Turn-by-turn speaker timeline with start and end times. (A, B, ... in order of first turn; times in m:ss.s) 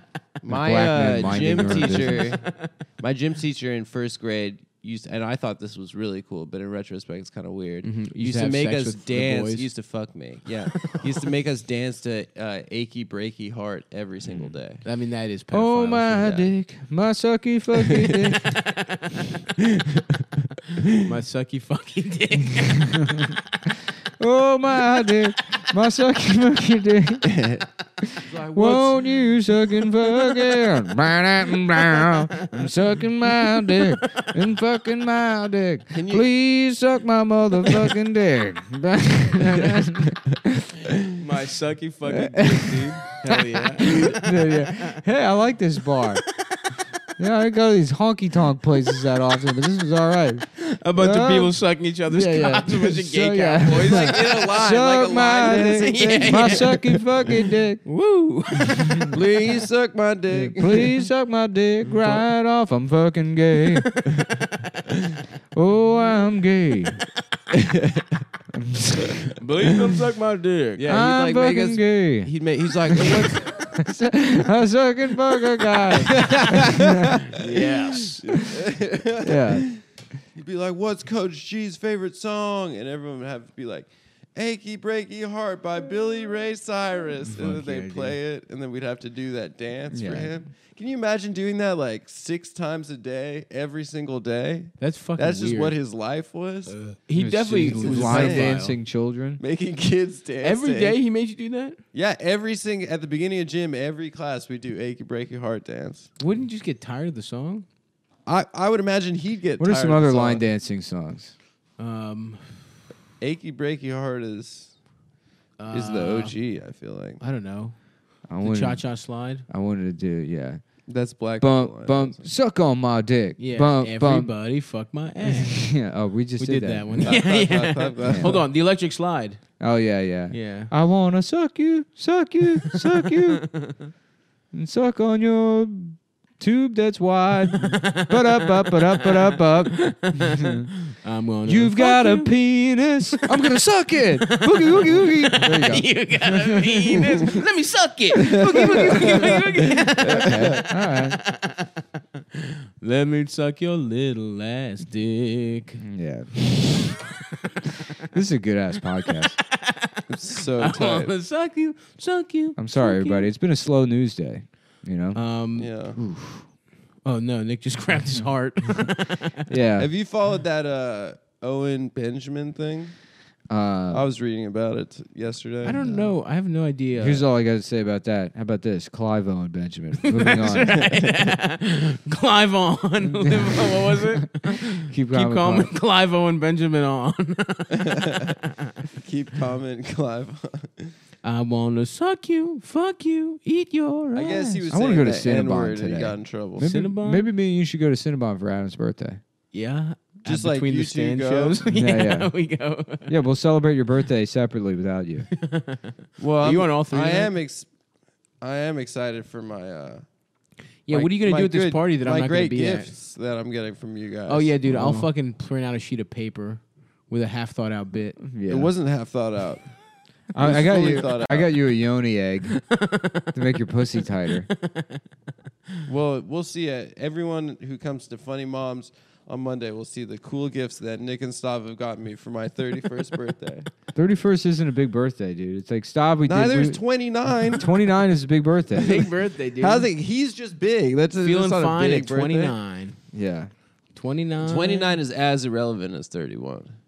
0:00.4-0:14.8 A
0:00.5-0:02.3 B
0:01.6-0:02.7 C
0:07.8-0:09.7 C
0:14.8-0:16.3 C
0:15.5-0:18.6 B
0:16.2-0:16.5 A
0:17.8-0:18.3 A
0:18.4-0:19.3 C
0:20.9-0:23.4 C
0:22.9-0:40.7 B
0:27.3-0:27.6 A
0:28.2-0:29.4 A
0:31.8-0:32.5 C
0:33.3-0:34.3 C
0:35.9-0:36.3 A
0:41.2-0:44.8 C
0:42.1-0:46.2 B
0:47.2-0:51.6 B
0:50.6-0:54.5 C
0:52.1-0:57.8 B
0:53.7-0:56.8 A
0:55.4-0:59.4 C
0:58.7-0:59.2 B
0:59.1-1:01.1 A
1:00.3-1:04.0 B
1:01.9-1:02.2 C
1:03.8-1:04.7 C
1:05.5-1:07.0 B
1:07.5-1:08.1 A
1:08.5-1:09.3 B
1:09.4-1:10.9 C
1:10.8-1:13.7 A
1:10.9-1:12.3 B
1:12.9-1:17.1 B
1:15.9-1:19.8 A
1:17.3-1:18.2 C
1:19.2-1:19.7 B
1:20.4-1:36.8 A
1:27.3-1:28.2 C
1:29.9-1:30.4 B
1:34.8-1:35.8 C
1:36.7-1:38.8 C
1:37.2-1:39.4 B
1:37.6-1:38.7 A
1:39.4-1:41.0 A
1:40.4-1:41.8 C
1:41.9-1:46.1 A
1:46.2-1:47.7 C
1:48.3-1:50.4 A
1:49.6-1:51.3 B
1:51.8-1:52.6 C
1:53.2-1:54.7 A
1:55.6-1:56.4 C
1:55.7-1:57.2 A
1:57.2-1:57.8 C
1:58.3-1:58.9 B
1:58.4-1:59.4 C
1:59.5-2:00.6 B
2:00.9-2:02.3 A
2:01.4-2:04.3 B
2:03.4-2:05.8 C
2:05.3-2:07.3 B
2:06.4-2:09.4 C
2:07.0-2:08.4 A
2:08.0-2:08.4 B
2:09.6-2:13.5 B
2:10.3-2:10.7 C
2:12.7-2:13.8 C
2:14.5-2:20.7 B
2:17.5-2:22.3 C
2:21.4-2:27.4 B
2:24.2-2:31.7 C
2:28.2-2:29.2 B
2:28.6-2:29.2 A
2:30.0-2:30.6 A
2:30.0-2:31.2 B
2:32.4-2:35.8 C
2:35.8-2:37.0 B
2:36.6-2:37.9 C
2:38.0-2:39.4 B
2:39.1-2:43.3 C
2:40.1-2:41.1 A
2:42.6-2:45.2 B
2:45.1-2:45.7 C
2:45.6-2:46.0 A
2:46.0-2:46.4 B
2:47.0-2:49.5 C
2:49.5-2:49.9 B
2:49.8-2:53.0 A
2:53.5-2:54.0 B
2:53.9-2:55.9 A
2:55.6-2:57.2 C
2:55.8-2:56.1 B
2:57.0-3:01.0 B
3:00.0-3:08.7 C
3:03.0-3:05.7 B
3:07.8-3:08.3 A
3:09.0-3:10.9 A
3:11.2-3:14.7 C
3:14.1-3:16.7 A
3:14.7-3:19.2 B
3:16.6-3:17.3 C
3:19.5-3:23.1 C
3:20.3-3:21.6 A
3:21.7-3:22.3 B
3:23.1-3:25.3 B
3:25.3-3:27.3 C
3:26.2-3:27.7 A
3:28.4-3:30.0 A
3:30.9-3:32.9 C
3:30.9-3:34.5 A
3:34.3-3:38.2 C
3:34.6-3:35.1 B
3:38.2-3:38.7 B
3:38.5-3:39.7 A
3:40.3-3:42.6 B
3:40.4-3:41.5 A
3:42.5-3:45.0 C
3:43.3-3:44.5 B
3:45.9-3:53.7 A
3:54.0-3:56.8 B
3:56.3-3:57.7 A
3:57.4-3:59.1 B
3:58.7-3:59.9 C
3:58.8-4:02.6 A
4:01.2-4:03.0 C
4:03.1-4:03.5 B
4:04.0-4:05.0 C
4:04.4-4:06.7 A